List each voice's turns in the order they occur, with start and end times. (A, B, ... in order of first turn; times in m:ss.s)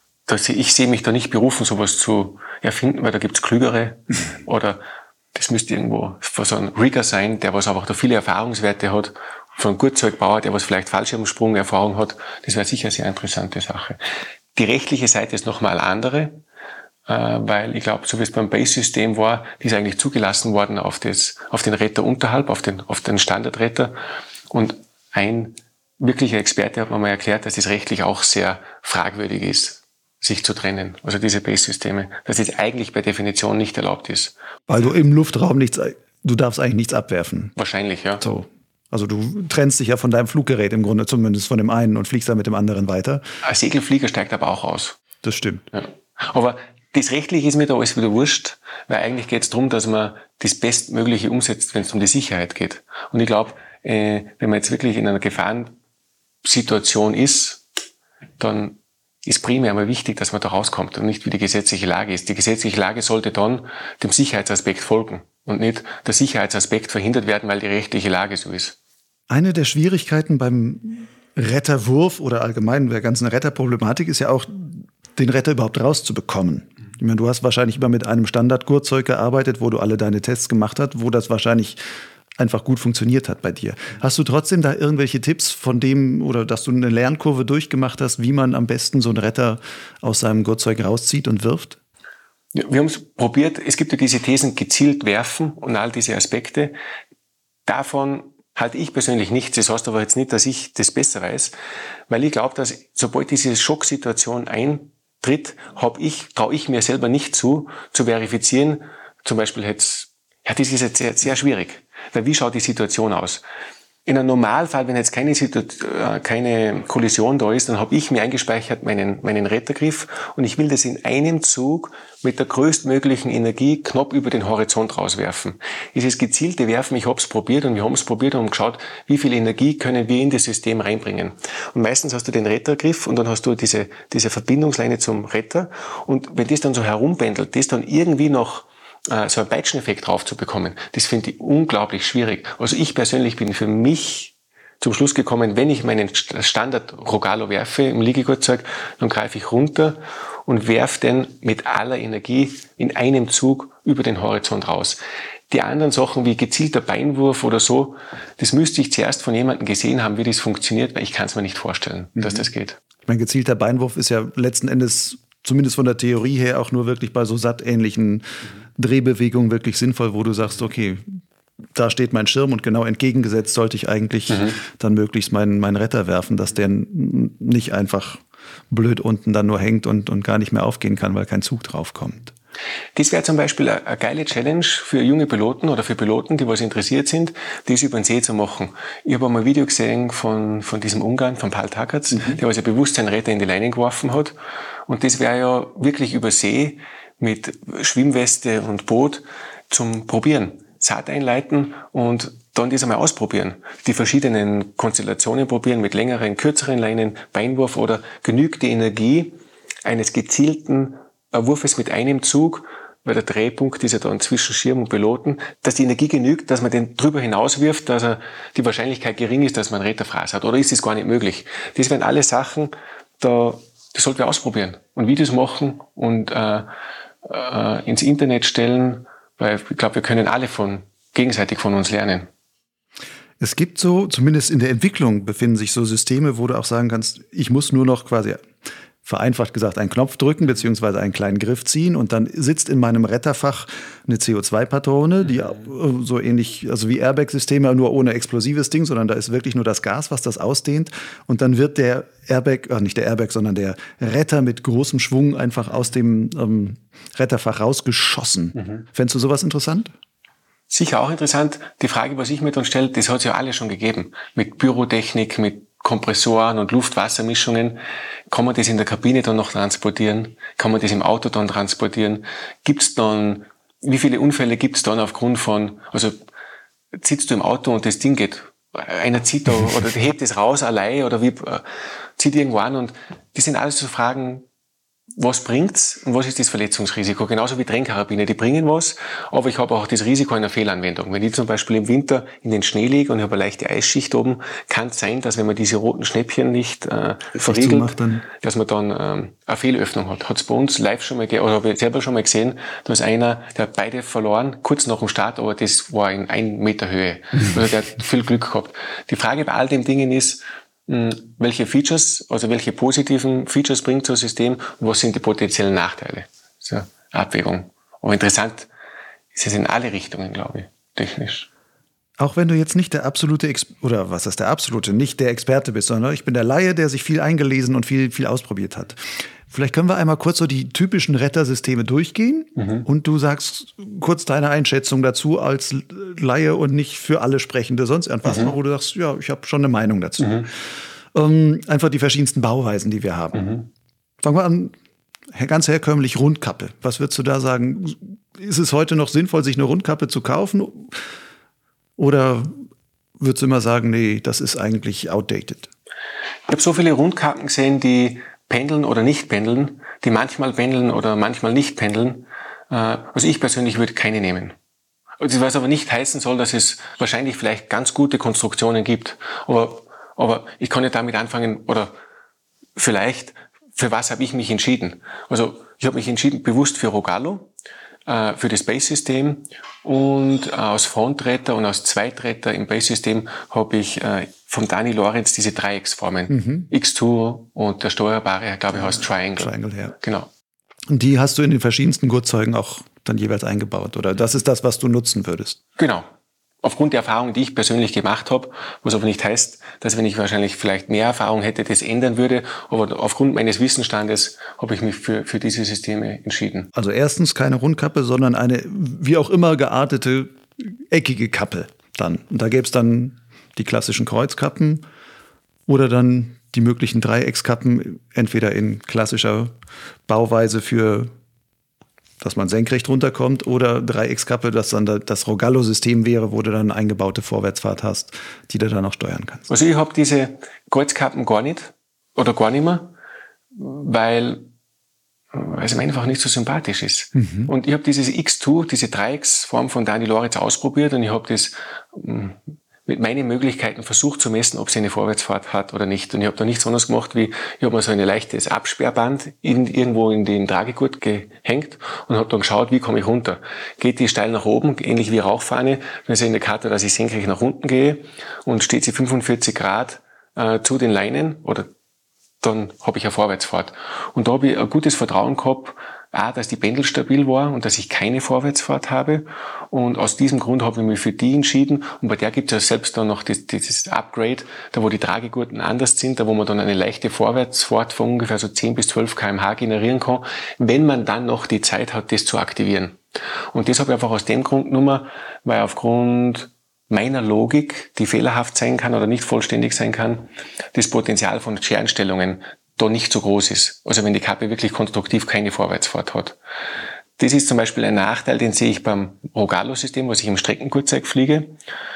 0:00.3-0:04.8 A
0:05.3-0:14.0 A
0:14.6-0:16.4 A
0:17.1-0:24.0 A
0:24.5-0:34.3 A
0:34.7-0:37.5 B
0:37.6-0:38.3 A
0:38.2-0:43.2 B
0:43.4-0:45.0 A
0:45.2-0:45.7 B
0:45.7-0:55.8 A
0:56.4-0:57.6 A
0:58.4-1:08.8 A
1:09.3-1:21.8 B
1:22.4-1:31.8 B
1:32.5-1:36.8 A
1:37.7-1:41.6 A
1:42.1-1:53.4 A
1:54.1-2:42.8 A
2:43.1-2:51.2 B
2:51.7-3:02.3 B
3:03.0-3:14.4 A
3:12.1-3:12.4 B
3:14.9-3:46.7 A
3:47.2-3:52.3 A
3:53.4-3:58.5 B
3:59.0-4:19.9 B
4:20.7-4:36.2 A
4:37.0-4:41.6 A
4:42.2-4:44.4 A
4:45.2-5:18.7 A
4:57.3-4:58.2 B
5:19.3-5:21.5 A
5:22.2-5:40.6 B
5:32.6-5:32.8 A
5:38.3-5:38.5 A
5:40.2-5:40.5 A
5:41.1-5:43.6 B
5:43.4-5:43.7 A
5:44.2-5:44.7 B
5:45.3-5:51.0 B
5:52.0-5:52.6 B
5:53.2-5:55.7 B
5:56.5-6:04.6 A
6:05.2-6:11.9 A
6:12.8-6:17.5 A
6:18.1-6:30.3 A
6:26.3-6:26.7 B
6:29.4-6:30.0 B
6:30.9-6:35.6 B
6:35.8-6:36.1 A
6:36.6-6:46.7 A
6:46.8-6:54.8 B
6:55.7-6:59.5 B
7:00.1-7:01.1 B
7:02.2-7:09.5 B
7:09.5-7:13.0 A
7:13.6-7:14.5 A
7:15.3-7:41.7 A
7:17.2-7:17.5 B
7:42.4-8:03.0 A
8:03.5-8:16.4 A
8:17.2-8:21.5 A